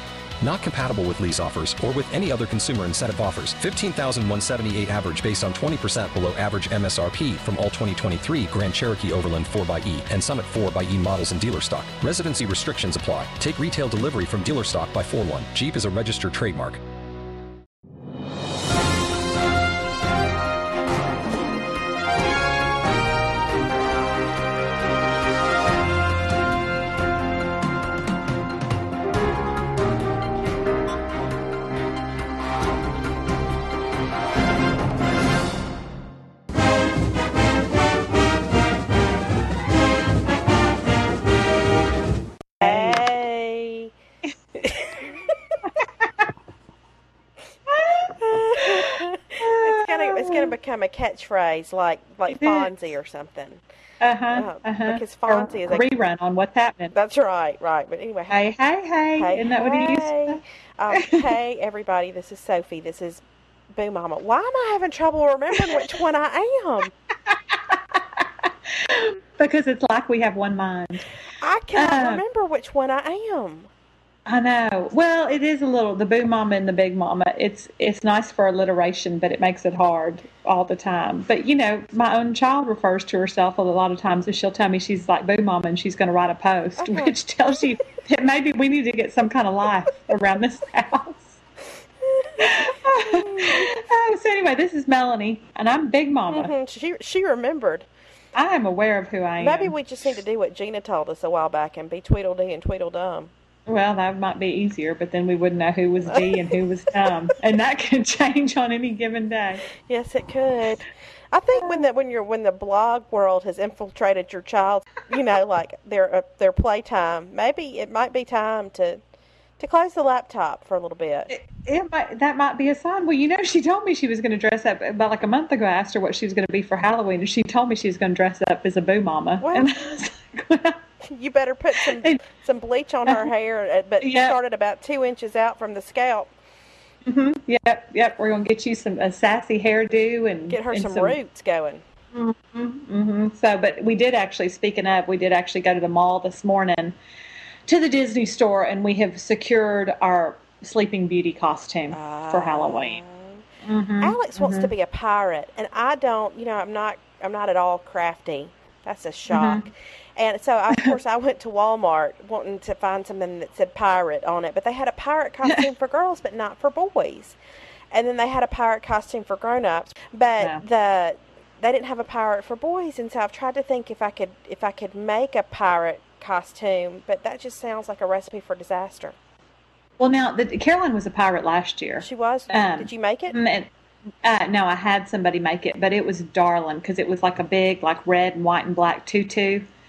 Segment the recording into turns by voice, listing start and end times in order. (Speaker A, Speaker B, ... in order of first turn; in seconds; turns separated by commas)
Speaker A: 0.4-16.8, Speaker B: 42.6-43.0, Speaker C: 42.6-43.9, Speaker C: 44.6-45.6, Speaker B: 45.6-46.3, Speaker B: 47.7-50.5, Speaker C: 48.2-53.6, Speaker B: 52.3-52.7, Speaker B: 54.0-56.9, Speaker C: 54.3-55.9, Speaker C: 56.9-58.4, Speaker B: 58.3-61.3, Speaker C: 59.2-63.2, Speaker C: 63.7-66.9, Speaker B: 65.6-65.8, Speaker B: 67.3-71.0, Speaker C: 71.4-73.7, Speaker B: 71.8-72.2, Speaker B: 74.3-91.4, Speaker C: 86.8-87.2, Speaker C: 92.0-93.7, Speaker B: 92.4-96.5, Speaker C: 96.3-97.9, Speaker B: 98.3-99.8, Speaker C: 99.4-103.3, Speaker B: 103.7-109.6, Speaker C: 106.0-106.6, Speaker C: 109.8-119.0, Speaker B: 111.5-111.9, Speaker C: 119.6-121.3, Speaker B: 121.3-130.8, Speaker C: 129.4-129.7, Speaker C: 131.0-136.3, Speaker B: 131.8-132.2, Speaker B: 134.0-134.4, Speaker B: 137.1-141.2, Speaker C: 140.5-141.8, Speaker B: 142.1-147.0, Speaker B: 147.7-153.0, Speaker C: 151.9-153.4, Speaker B: 153.6-154.7, Speaker C: 154.0-167.4, Speaker B: 159.3-159.7, Speaker B: 160.7-161.0, Speaker C: 167.9-179.2, Speaker B: 180.0-183.7, Speaker C: 182.0-183.4, Speaker B: 184.2-189.7